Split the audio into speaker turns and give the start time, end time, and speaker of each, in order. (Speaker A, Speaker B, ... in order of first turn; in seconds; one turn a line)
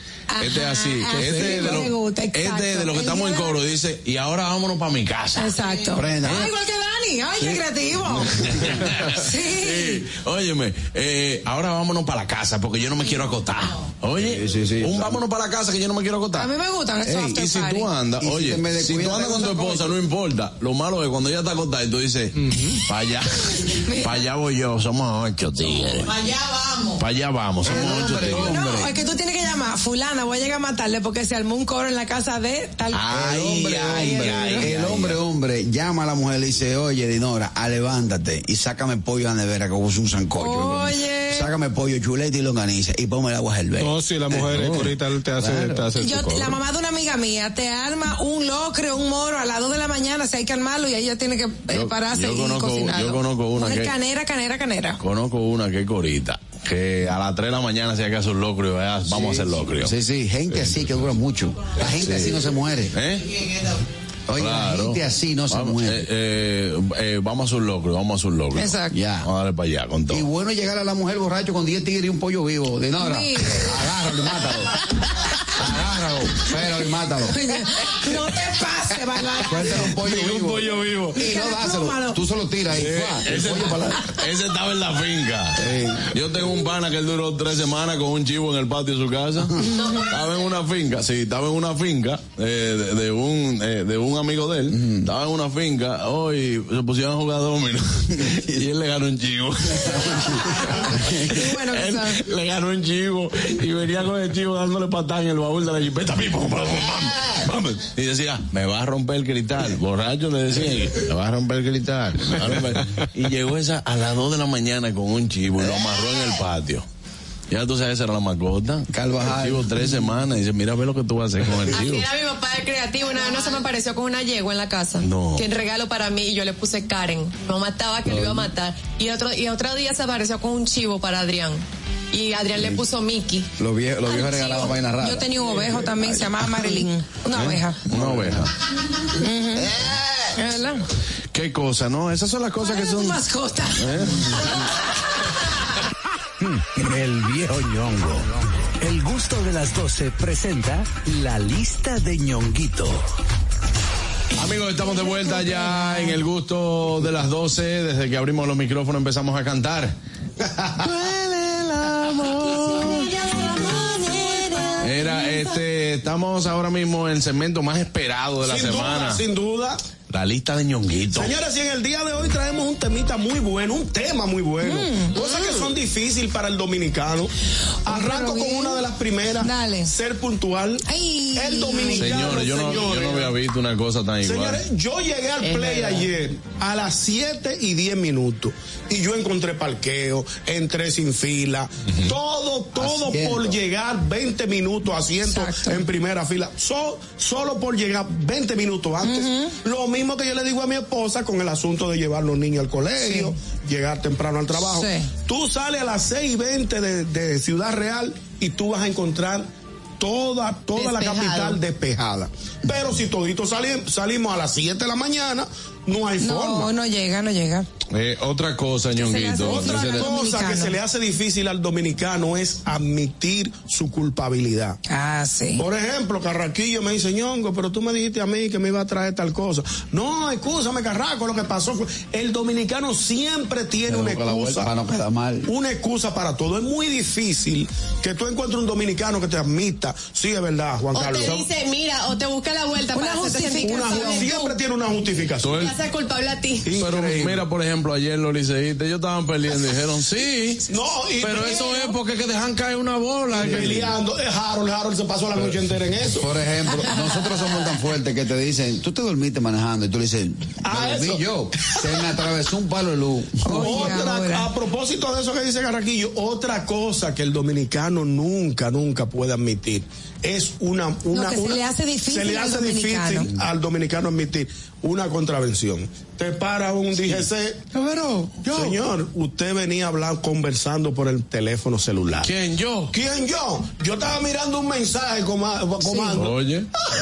Speaker A: 0.3-3.6
Speaker B: 0.4-5.5
Speaker C: 1.2-1.6
Speaker A: 5.4-8.5
Speaker D: 5.9-6.5
Speaker B: 8.5-16.5
Speaker A: 9.2-10.0
Speaker D: 14.2-15.2
Speaker A: 16.4-17.9
Speaker B: 17.1-26.1
Speaker D: 18.2-20.0
Speaker C: 22.4-22.8
Speaker A: 23.9-24.2
Speaker B: 27.0-28.5
Speaker D: 27.6-28.9
Speaker A: 27.7-33.0
Speaker B: 32.9-35.2
Speaker D: 33.1-44.7
Speaker A: 33.8-34.6
Speaker A: 40.4-41.5
Speaker C: 43.8-46.6
Speaker B: 44.4-44.9
Speaker D: 45.4-45.8
Speaker A: 46.0-55.0
Speaker B: 51.7-53.9
Speaker B: 55.0-59.9
Speaker D: 59.1-63.0
Speaker B: 60.6-61.1
Speaker B: 62.0-62.4
Speaker B: 62.9-63.3
Speaker D: 64.3-66.1
Speaker B: 64.4-70.3
Speaker A: 68.6-69.0
Speaker D: 68.9-69.3
Speaker D: 70.1-74.8
Speaker A: 73.0-73.7
Speaker D: 75.6-77.4
Speaker A: 77.3-79.9
Speaker D: 79.5-84.0
Speaker C: 80.1-81.1
Speaker A: 81.2-82.2
Speaker B: 82.7-116.8
Speaker D: 85.6-86.1
Speaker E: 89.8-90.4
Speaker D: 94.7-95.1
Speaker D: 99.9-101.3
Speaker A: 101.2-102.2
Speaker B: 117.5-122.1
Speaker D: 118.9-119.9
Speaker E: 121.7-133.5
Speaker B: 125.0-125.5
Speaker D: 128.1-128.5
Speaker D: 133.6-136.5
Speaker A: 134.1-137.8
Speaker B: 137.3-138.5
Speaker D: 137.9-138.5
Speaker A: 139.2-139.7
Speaker A: 140.4-140.8
Speaker B: 141.3-143.2
Speaker A: 142.6-144.4
Speaker B: 143.8-144.6
Speaker F: 146.4-148.3
Speaker F: 148.8-153.1
Speaker B: 154.4-159.9
Speaker A: 155.0-156.2
Speaker B: 160.8-163.1
Speaker B: 164.8-169.2
Speaker G: 168.4-169.8
Speaker B: 170.1-171.3
Speaker G: 171.1-177.3
Speaker A: 174.6-175.2
Speaker E: 175.2-175.6
Speaker G: 177.9-180.8
Speaker A: 177.9-178.8
Speaker A: 179.4-179.9
Speaker A: 180.9-182.4
Speaker G: 181.3-183.3
Speaker B: 182.0-184.6
Speaker G: 184.2-209.5
Speaker E: 185.4-186.1
Speaker D: 192.8-193.6
Speaker A: 195.3-195.8
Speaker A: 199.0-199.5
Speaker A: 203.0-203.3
Speaker A: 204.6-205.1
Speaker G: 210.0-216.7
Speaker E: 210.8-211.6
Speaker A: 216.2-217.7
Speaker B: 217.9-220.1
Speaker A: 219.0-220.8
Speaker G: 219.4-224.8
Speaker A: 224.9-225.6
Speaker G: 225.6-234.7
Speaker D: 233.9-235.5
Speaker G: 235.5-241.5
Speaker E: 240.9-244.6
Speaker A: 242.9-244.3
Speaker G: 243.6-245.6
Speaker B: 245.4-245.8
Speaker E: 245.5-246.7
Speaker G: 246.7-247.4
Speaker B: 246.8-250.7
Speaker G: 250.7-251.9
Speaker B: 251.2-253.9
Speaker G: 253.3-256.3
Speaker D: 256.2-264.0
Speaker G: 260.6-261.2
Speaker A: 263.5-264.5
Speaker G: 263.5-277.6
Speaker A: 271.1-273.3
Speaker B: 277.8-278.7
Speaker G: 278.5-282.3
Speaker B: 282.2-282.9
Speaker G: 282.9-286.4
Speaker A: 285.8-286.1
Speaker B: 286.1-286.7